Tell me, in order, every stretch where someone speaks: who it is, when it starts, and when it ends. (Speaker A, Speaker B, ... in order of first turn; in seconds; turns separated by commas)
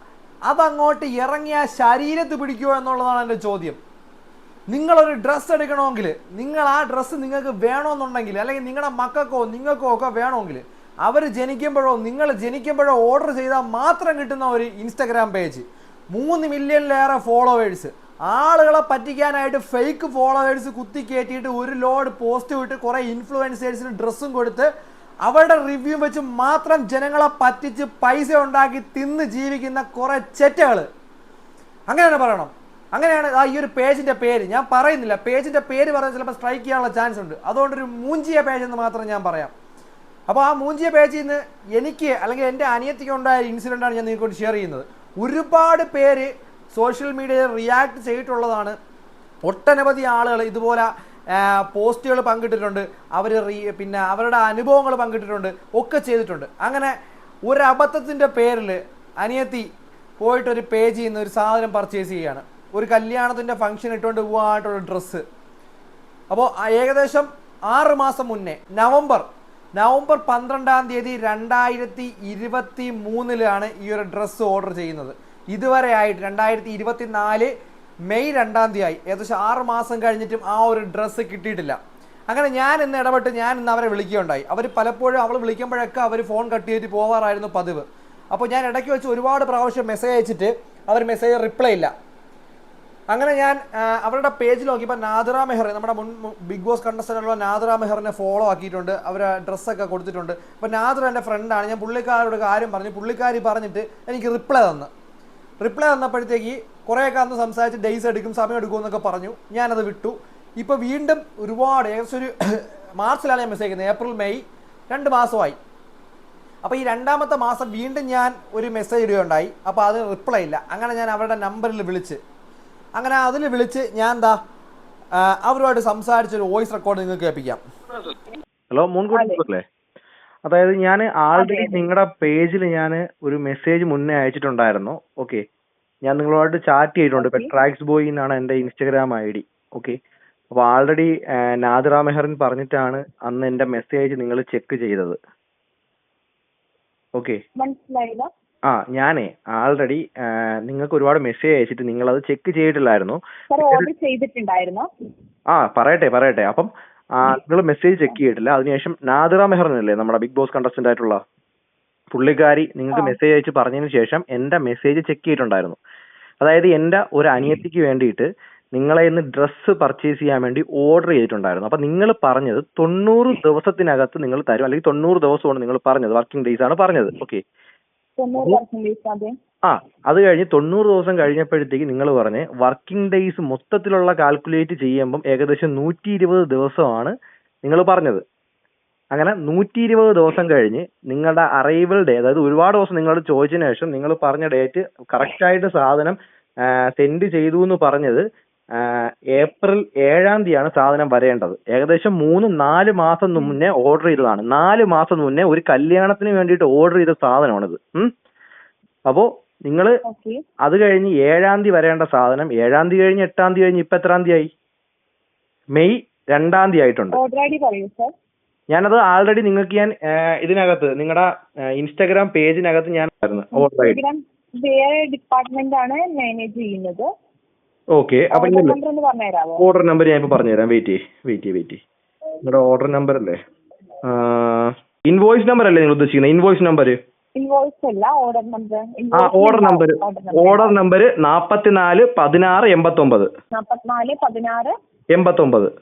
Speaker A: 0.5-3.8, Speaker A: 4.7-24.7, Speaker A: 25.2-30.9, Speaker A: 31.9-39.5, Speaker A: 40.3-48.8, Speaker A: 49.4-56.9, Speaker A: 57.5-65.2, Speaker A: 66.3-69.2, Speaker A: 69.8-77.5, Speaker A: 78.1-91.9, Speaker A: 93.1-104.9, Speaker A: 105.6-115.6, Speaker A: 116.6-122.2, Speaker A: 123.0-124.4, Speaker A: 125.2-127.6, Speaker B: 128.7-129.6, Speaker C: 129.1-129.4, Speaker B: 130.4-135.4, Speaker C: 131.3-131.8, Speaker B: 136.0-140.0, Speaker C: 137.2-137.5, Speaker B: 140.5-145.2, Speaker B: 147.2-147.4, Speaker C: 147.6-148.3, Speaker B: 148.7-153.9, Speaker C: 153.5-154.9, Speaker B: 155.5-161.2, Speaker B: 162.1-165.8, Speaker B: 166.4-177.4, Speaker C: 178.2-179.3, Speaker B: 179.6-188.2, Speaker B: 189.1-198.2, Speaker B: 198.8-208.1, Speaker B: 209.1-209.9, Speaker C: 210.1-210.4, Speaker B: 210.6-214.5, Speaker B: 215.7-217.2, Speaker C: 217.1-218.1, Speaker B: 218.7-224.0, Speaker C: 223.5-227.1, Speaker B: 227.9-228.8, Speaker C: 228.3-229.6, Speaker B: 229.6-231.8, Speaker B: 232.4-233.4, Speaker B: 234.0-237.0, Speaker C: 237.3-240.8, Speaker B: 239.1-243.3, Speaker C: 243.5-244.7, Speaker B: 245.1-245.7